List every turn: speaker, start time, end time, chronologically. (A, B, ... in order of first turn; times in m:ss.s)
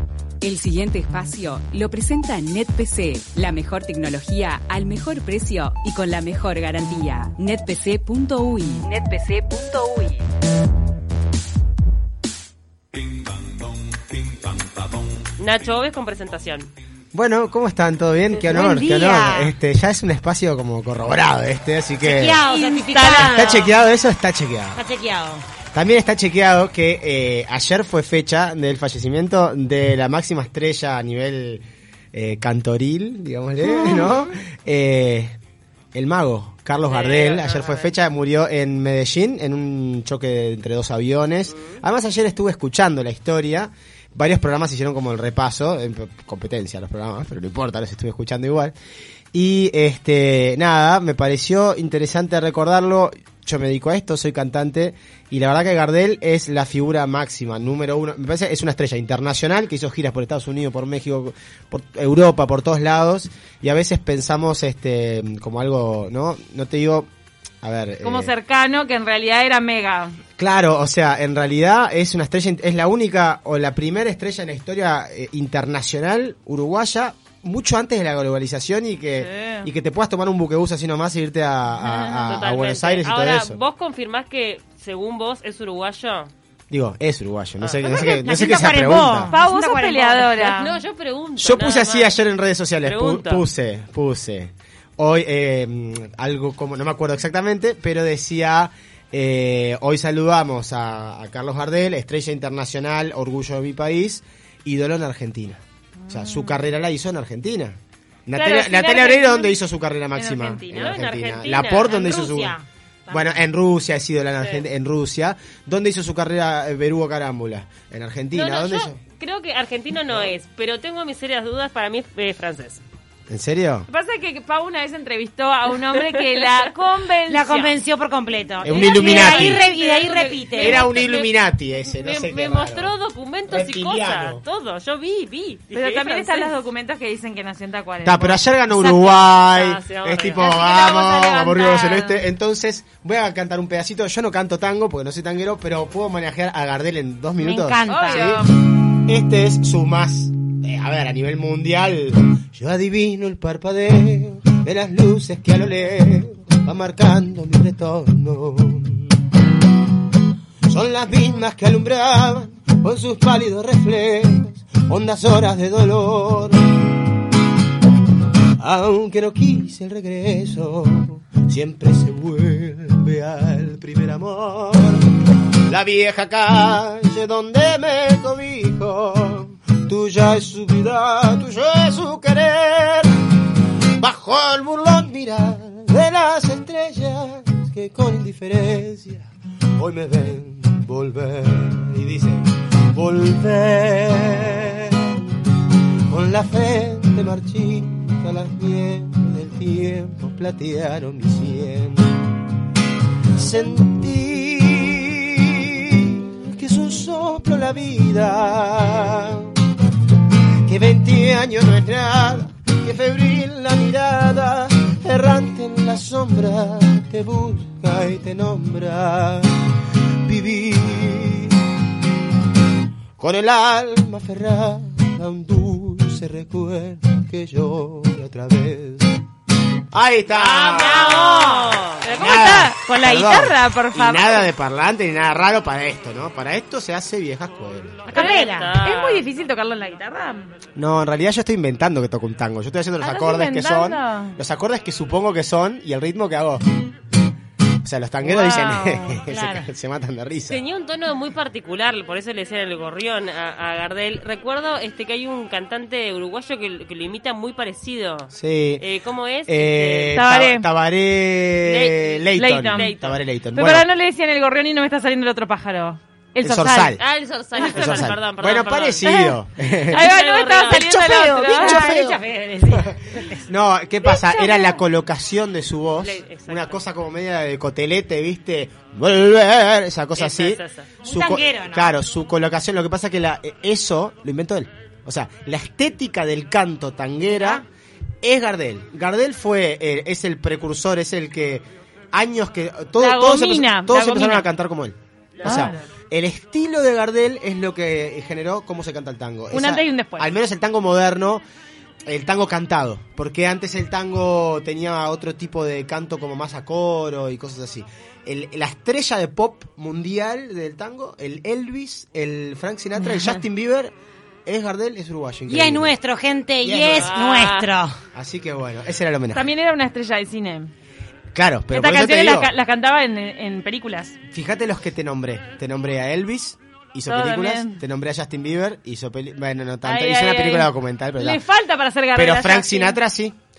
0:00.4-0:10.2 A
0:15.4-0:16.7 B
0:17.1-0:22.4 C
0:18.4-0:19.6 D
0:22.0-0:23.6 D
0:22.5-0:22.9 E
0:22.5-0:23.7 B
0:23.1-0:24.8 C
0:24.8-0:25.4 D
0:25.7-0:35.4 C
0:36.0-0:48.8 C
0:36.8-0:37.9 B
0:41.5-0:41.8 B
0:49.3-1:07.1 C
1:07.6-1:08.3 C
1:08.0-1:10.2 E
1:10.4-1:23.6 C
1:19.2-1:19.7 E
1:21.9-1:22.2 E
1:22.2-1:26.3 B
1:26.7-1:29.4 C
1:27.6-1:28.2 B
1:27.8-1:30.4 D
1:29.3-1:30.8 E
1:30.4-1:32.2 B
1:31.4-1:52.6 C
1:32.8-1:33.5 B
1:46.0-1:46.6 E
1:48.3-1:49.6 E
1:50.2-1:50.7 E
1:50.6-1:52.0 B
1:51.8-1:53.3 D
1:53.1-1:59.0 C
1:54.4-1:54.6 B
1:58.3-2:02.8 B
2:03.3-2:03.9 C
2:03.9-2:07.8 E
2:05.9-2:06.6 B
2:07.3-2:10.8 D
2:08.6-2:09.6 C
2:08.7-2:16.5 B
2:08.9-2:09.6 E
2:10.6-2:12.9 C
2:13.5-2:14.4 C
2:15.7-2:18.4 E
2:18.0-2:28.5 C
2:18.7-2:19.2 D
2:19.3-2:20.5 B
2:20.4-2:22.2 E
2:27.4-2:28.4 D
2:27.9-2:28.5 E
2:29.0-2:39.2 C
2:40.7-2:47.0 C
2:48.6-2:55.2 C
2:55.7-3:03.2 C
3:04.0-3:15.3 C
3:16.1-3:22.3 C
3:23.3-3:29.6 C
3:30.7-3:39.7 C
3:40.2-3:41.7 C
3:43.2-3:49.2 C
3:49.9-3:51.2 C
3:50.3-3:52.3 B
3:50.6-3:51.8 D
3:52.0-3:54.5 E
3:52.2-3:58.0 C
3:58.1-3:58.8 D
3:58.1-3:59.2 B
3:58.1-4:00.5 E
4:00.8-4:06.8 C
4:03.0-4:04.4 E
4:07.8-4:10.6 C
4:08.2-4:09.2 B
4:08.4-4:08.9 E
4:09.3-4:09.7 D
4:10.5-4:20.2 B
4:18.3-4:18.8 C
4:19.5-4:23.9 C
4:20.1-4:20.7 E
4:21.6-4:23.2 B
4:22.4-4:23.0 E
4:23.5-4:27.0 E
4:26.4-4:27.0 C
4:27.0-4:29.1 B
4:27.6-4:28.1 E
4:27.6-4:30.1 C
4:29.0-4:31.9 E
4:29.9-4:31.0 B
4:30.7-4:47.6 C
4:30.9-4:33.4 D
4:34.0-4:34.8 E
4:36.0-4:36.8 B
4:40.2-4:40.9 B
4:41.0-4:42.0 D
4:48.2-5:01.4 C
4:53.0-4:54.5 E
4:55.4-4:55.8 B
4:55.4-4:55.8 E
4:59.5-5:00.3 E
5:02.1-5:13.9 C
5:14.5-5:16.0 C
5:15.5-5:18.0 D
5:16.6-5:17.1 C
5:17.0-5:17.8 B
5:18.1-5:19.5 C
5:19.3-5:20.7 E
5:21.3-5:22.5 C
5:21.7-5:24.2 E
5:24.3-5:31.4 C
5:27.1-5:27.8 E
5:29.8-5:33.0 E
5:32.2-5:33.4 C